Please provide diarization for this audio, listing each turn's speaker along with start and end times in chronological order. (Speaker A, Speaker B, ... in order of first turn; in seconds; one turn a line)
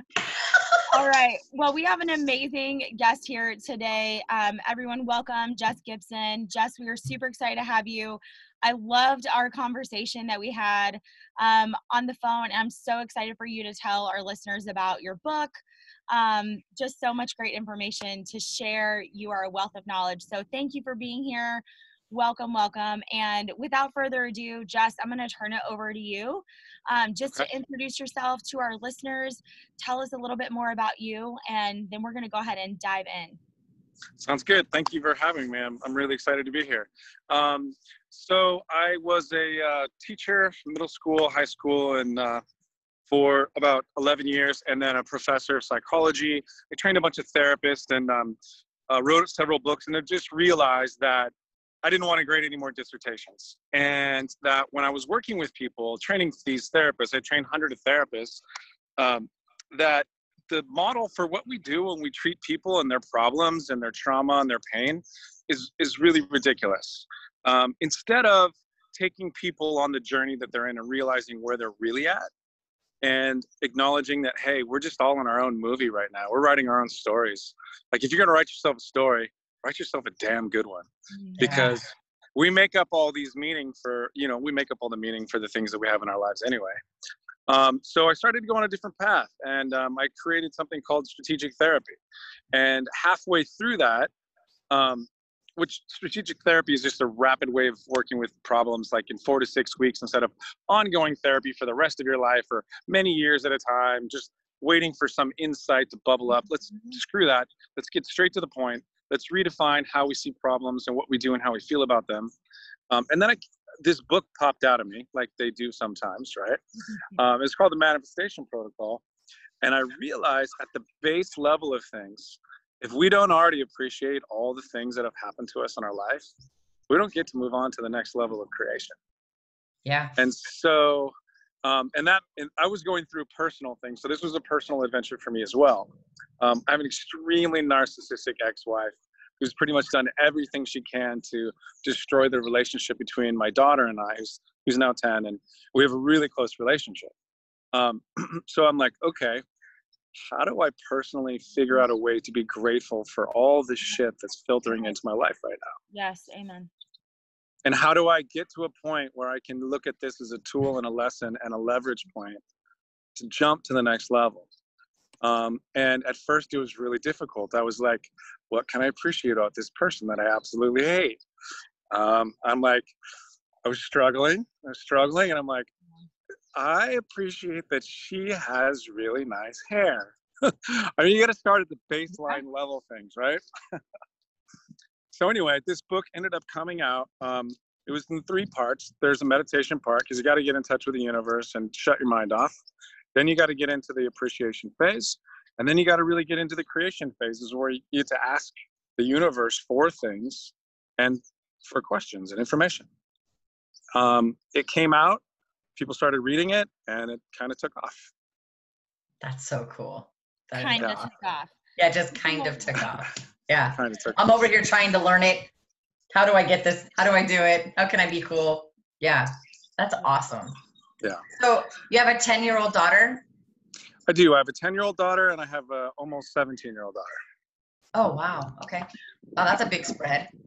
Speaker A: 0.3-0.8
Speaker B: 0.9-15.6
Speaker B: 16.1-33.4
Speaker C: 34.2-42.4
Speaker C: 43.1-48.4
Speaker C: 48.9-51.3
Speaker C: 51.8-58.4
Speaker C: 59.0-72.3
Speaker C: 73.0-86.8
Speaker B: 81.1-81.4
Speaker A: 81.4-81.8
Speaker C: 87.5-92.0
Speaker C: 92.5-94.1
Speaker C: 94.7-112.3
Speaker C: 112.9-116.6
Speaker C: 117.1-119.0
Speaker C: 119.6-126.3
Speaker C: 126.9-128.9
Speaker A: 129.8-130.1
Speaker C: 130.2-147.1
Speaker C: 147.7-149.4
Speaker C: 150.1-155.8
Speaker B: 155.9-156.7
Speaker C: 157.6-162.4
Speaker C: 163.2-164.5
Speaker C: 165.2-171.2
Speaker C: 171.9-172.9
Speaker C: 173.6-175.7
Speaker C: 176.5-183.8
Speaker C: 185.1-192.5
Speaker C: 193.1-202.9
Speaker C: 203.9-205.2
Speaker C: 205.8-208.1
Speaker A: 209.2-211.1
Speaker B: 210.6-211.5
Speaker A: 211.8-215.5
Speaker B: 212.1-212.8
Speaker C: 213.7-214.3
Speaker A: 216.1-220.5
Speaker A: 221.4-223.2
Speaker C: 224.1-227.2
Speaker A: 227.9-230.3